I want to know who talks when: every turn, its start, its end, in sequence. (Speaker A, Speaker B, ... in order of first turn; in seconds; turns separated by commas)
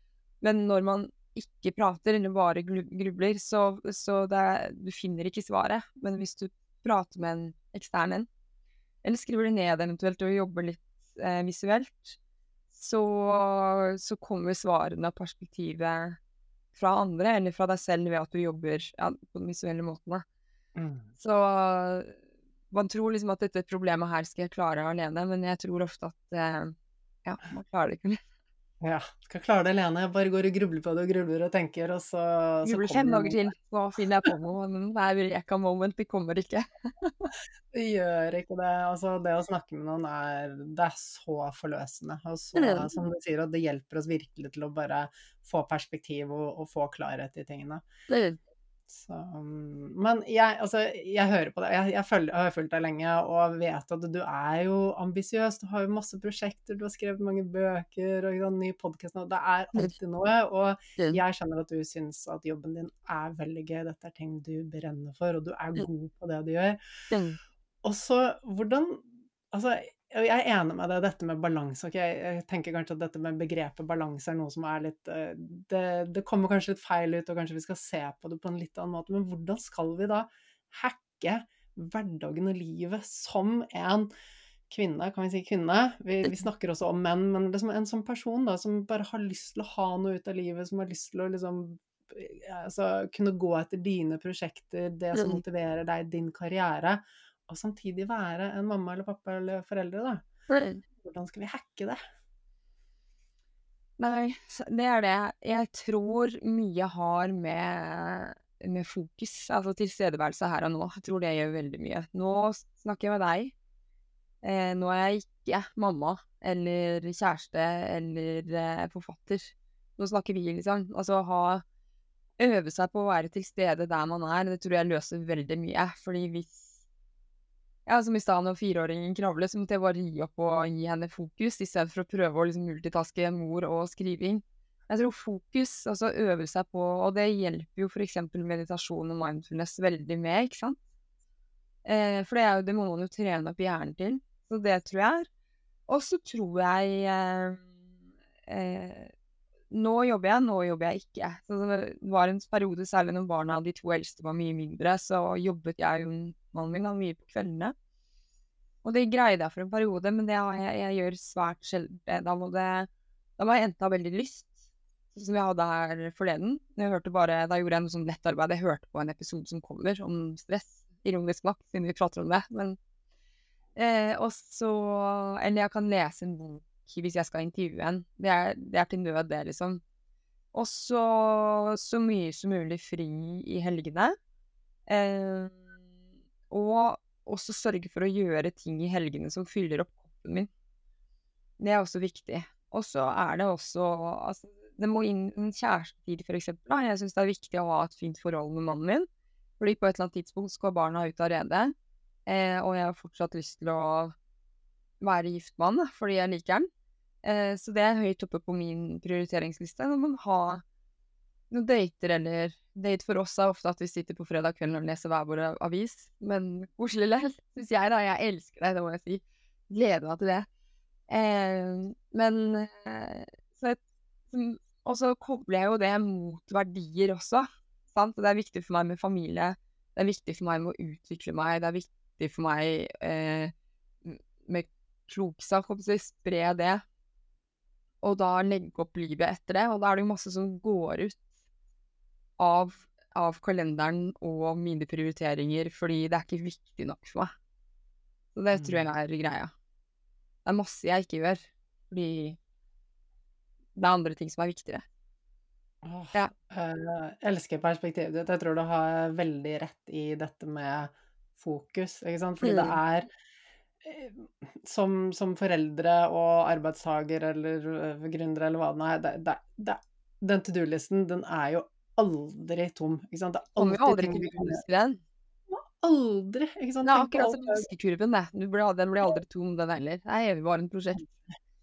Speaker A: 0.4-8.3, Speaker A: 9.0-12.2, Speaker A: 12.7-16.2, Speaker A: 16.7-20.2, Speaker B: 20.8-21.1, Speaker A: 21.2-22.1, Speaker A: 22.7-26.7, Speaker A: 27.2-28.2, Speaker B: 28.8-33.4, Speaker A: 32.6-37.3, Speaker B: 37.7-47.8, Speaker A: 42.5-42.9, Speaker A: 48.1-48.4, Speaker B: 48.9-66.8, Speaker A: 67.1-67.4, Speaker B: 67.8-84.1, Speaker B: 84.7-100.2, Speaker A: 95.1-95.4, Speaker A: 100.5-100.8, Speaker B: 101.0-102.0, Speaker A: 104.0-113.5, Speaker A: 114.4-121.6, Speaker A: 122.4-126.6, Speaker A: 127.8-140.8, Speaker A: 141.8-145.3, Speaker A: 145.9-147.7, Speaker A: 148.4-149.1, Speaker A: 149.7-157.7, Speaker A: 158.8-164.5, Speaker A: 165.1-172.8, Speaker A: 173.8-179.8, Speaker A: 180.5-184.2, Speaker A: 184.9-185.6, Speaker A: 186.5-190.5, Speaker A: 191.6-199.1, Speaker A: 199.6-201.7, Speaker A: 202.2-204.1, Speaker A: 205.0-206.7, Speaker A: 207.2-210.6, Speaker A: 211.5-220.5, Speaker A: 221.1-233.5, Speaker A: 234.0-236.8, Speaker A: 238.0-241.2, Speaker A: 242.4-247.3, Speaker A: 248.3-249.5, Speaker B: 248.5-248.8, Speaker A: 250.4-252.4, Speaker A: 253.8-254.8, Speaker B: 255.8-263.1, Speaker A: 262.4-262.8, Speaker B: 263.8-274.6, Speaker A: 273.6-275.0, Speaker B: 275.5-277.7, Speaker A: 276.8-281.1